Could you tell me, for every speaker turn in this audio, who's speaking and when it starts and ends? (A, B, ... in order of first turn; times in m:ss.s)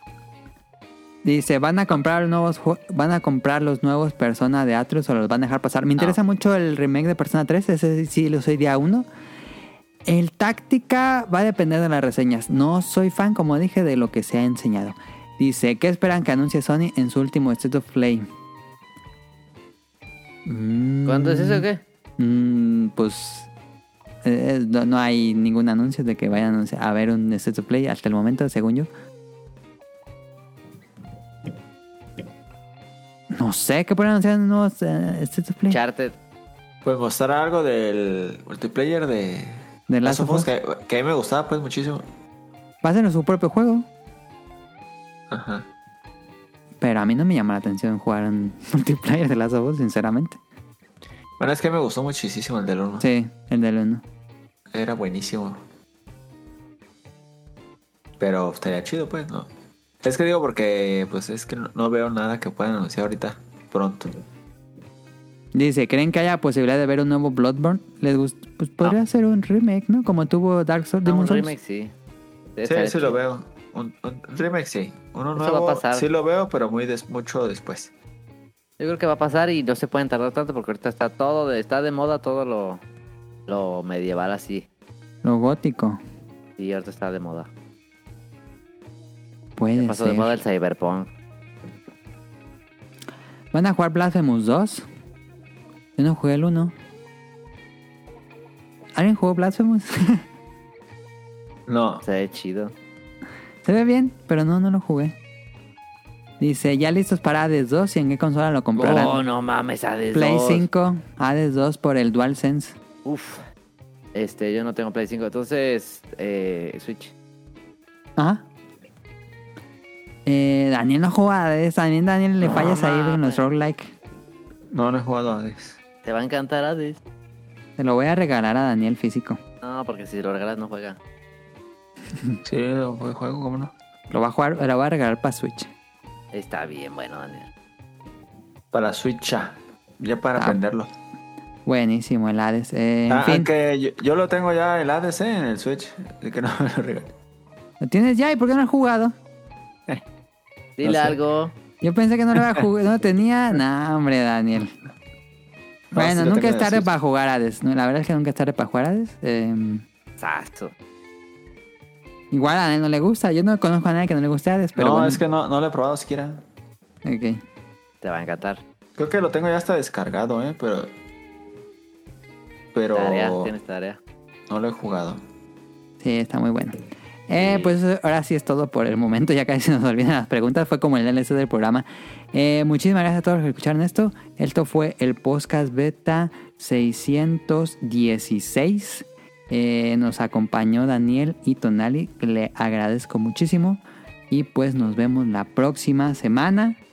0:01.2-0:09.0 A
0:10.0-0:18.3 A
0:20.4-0:21.6 A
0:21.0-0:21.8 B
0:22.2-0:23.5 A
0:24.2-0:28.9 A
0:33.3-0:35.8 A
0:35.7-0:36.2 B
0:36.8-0:42.1 C
0:39.9-0:40.5 A
0:42.8-0:43.9 A
0:45.3-0:45.7 C
0:46.8-0:50.4 A
0:51.4-0:53.1 C
0:53.0-0:54.0 A
0:54.7-0:55.6 C
0:58.2-0:59.5 C
1:00.0-1:04.1 C
1:05.5-1:11.5 A
1:11.0-1:11.9 B
1:12.6-1:13.2 B
1:12.6-1:17.9 C
1:15.4-1:16.0 B
1:18.8-1:22.8 B
1:23.5-1:24.7 B
1:25.2-1:26.0 A
1:26.6-1:27.5 B
1:29.6-1:30.3 A
1:29.8-1:31.1 B
1:33.5-1:34.8 A
1:36.0-1:36.7 A
1:38.9-1:40.2 A
1:41.7-1:42.0 C
1:42.0-1:42.7 B
1:43.6-1:45.1 A
1:46.4-1:49.2 A
1:48.8-1:50.7 B
1:50.1-1:52.7 A
1:53.0-1:53.4 B
1:54.1-1:57.1 B
1:58.2-1:58.4 A
2:00.2-2:03.9 A
2:02.4-2:03.4 B
2:04.7-2:05.8 C
2:06.0-2:07.0 B
2:07.8-2:09.4 A
2:09.6-2:11.0 B
2:12.4-2:13.7 C
2:14.1-2:15.7 A
2:16.3-2:17.5 B
2:18.7-2:20.9 C
2:21.6-2:23.5 A
2:23.1-2:27.1 C
2:27.8-2:29.1 A
2:30.8-2:31.5 B
2:30.8-2:31.2 C
2:31.8-2:34.7 A
2:35.9-2:36.9 C
2:35.9-2:39.8 A
2:40.2-2:40.7 B
2:42.3-2:45.2 A
2:44.8-2:46.4 C
2:47.0-2:47.4 A
2:48.0-2:48.6 B
2:49.0-2:50.9 C
2:52.7-2:53.5 C
2:52.9-2:54.0 B
2:54.5-2:55.2 C
2:56.0-3:16.8 A
2:57.4-2:57.7 B